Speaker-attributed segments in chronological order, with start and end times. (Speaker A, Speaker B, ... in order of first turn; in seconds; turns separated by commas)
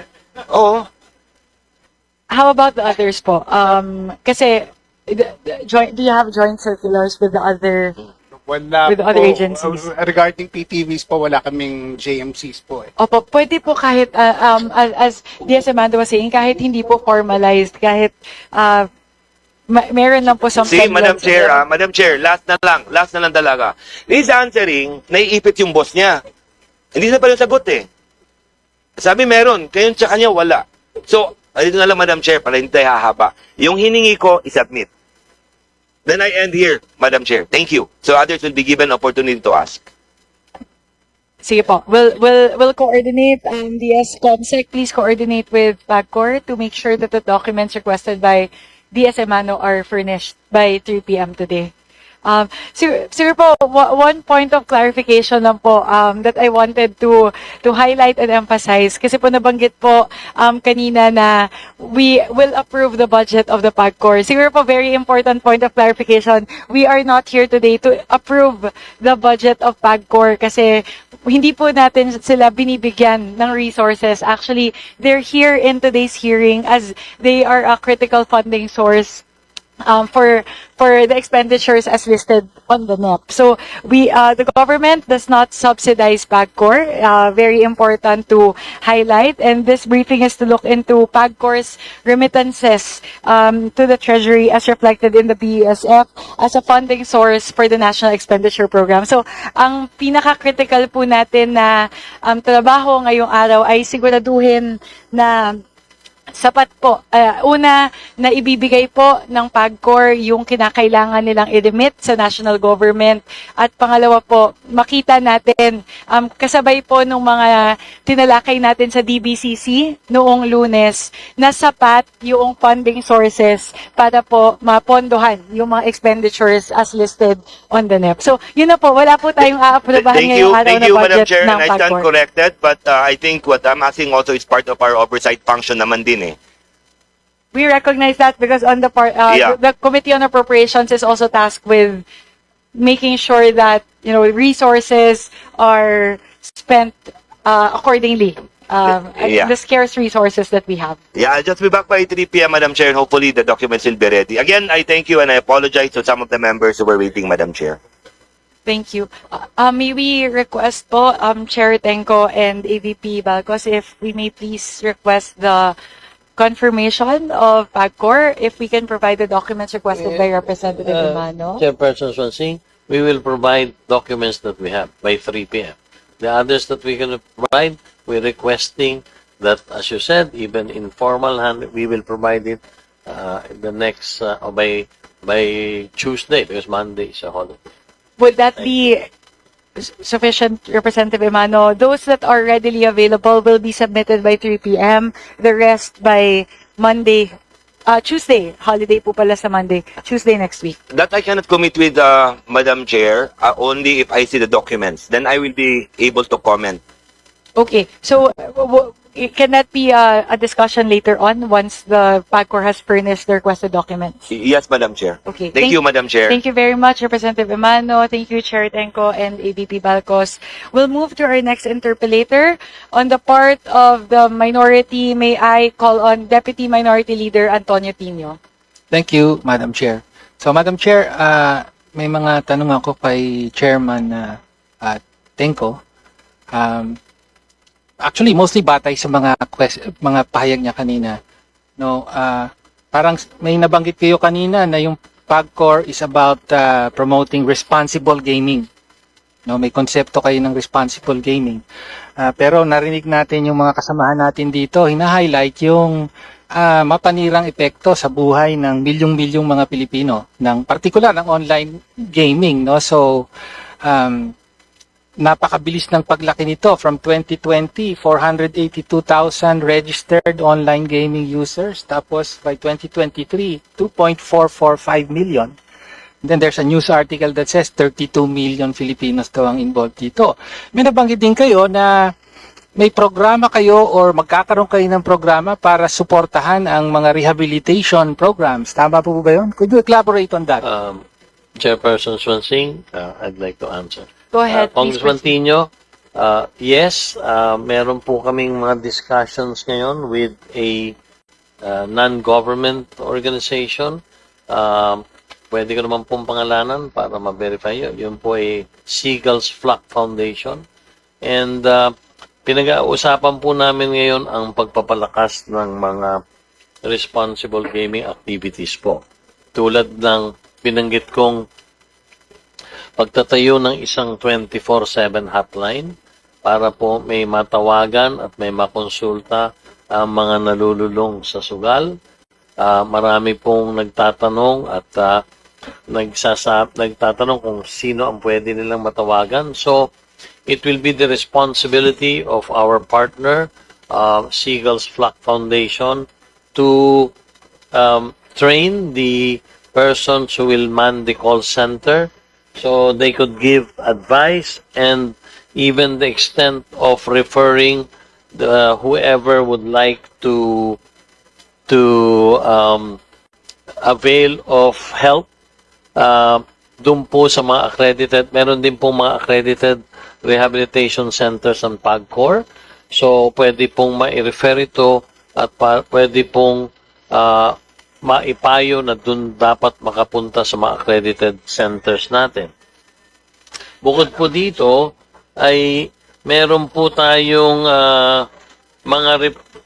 Speaker A: 0.5-0.9, Speaker B: 2.3-8.0, Speaker C: 8.4-12.9, Speaker B: 8.9-9.9, Speaker B: 13.0-18.9, Speaker B: 19.7-21.6, Speaker A: 20.7-26.2, Speaker A: 26.9-27.9, Speaker A: 29.0-34.9, Speaker A: 36.1-39.9, Speaker B: 41.4-51.7, Speaker B: 52.2-79.2, Speaker B: 79.9-105.6, Speaker B: 106.4-132.1, Speaker A: 129.9-136.4, Speaker B: 137.5-142.1, Speaker A: 139.3-139.6, Speaker B: 142.8-151.0, Speaker A: 149.1-149.5, Speaker A: 151.2-157.8, Speaker B: 158.7-165.8, Speaker B: 166.4-171.7, Speaker D: 170.0-187.6, Speaker B: 188.2-189.1, Speaker B: 189.8-197.3, Speaker B: 197.9-200.8, Speaker A: 200.9-206.8, Speaker B: 207.6-214.3, Speaker A: 214.3-216.4, Speaker B: 215.3-228.4, Speaker E: 228.9-235.8, Speaker E: 236.5-237.0, Speaker E: 238.0-241.2, Speaker E: 241.8-248.7, Speaker E: 249.5-251.6, Speaker E: 252.2-256.0, Speaker E: 256.6-263.3, Speaker E: 263.8-264.3, Speaker E: 265.2-275.5, Speaker E: 276.2-282.0, Speaker E: 282.8-290.6, Speaker D: 290.6-291.0, Speaker D: 291.6-300.9, Speaker B: 294.3-295.3, Speaker D: 301.6-304.0, Speaker D: 304.5-310.6, Speaker D: 311.2-311.9, Speaker D: 312.5-316.1, Speaker D: 316.9-319.0, Speaker D: 319.6-321.4, Speaker D: 323.0-325.9, Speaker D: 326.4-329.4, Speaker D: 329.9-331.9, Speaker D: 332.6-335.2, Speaker D: 335.9-339.9, Speaker D: 340.5-347.1, Speaker D: 347.7-360.8, Speaker D: 361.7-363.0, Speaker D: 363.8-365.3, Speaker D: 366.0-377.6, Speaker D: 378.1-382.5, Speaker D: 383.8-388.3, Speaker D: 388.9-389.4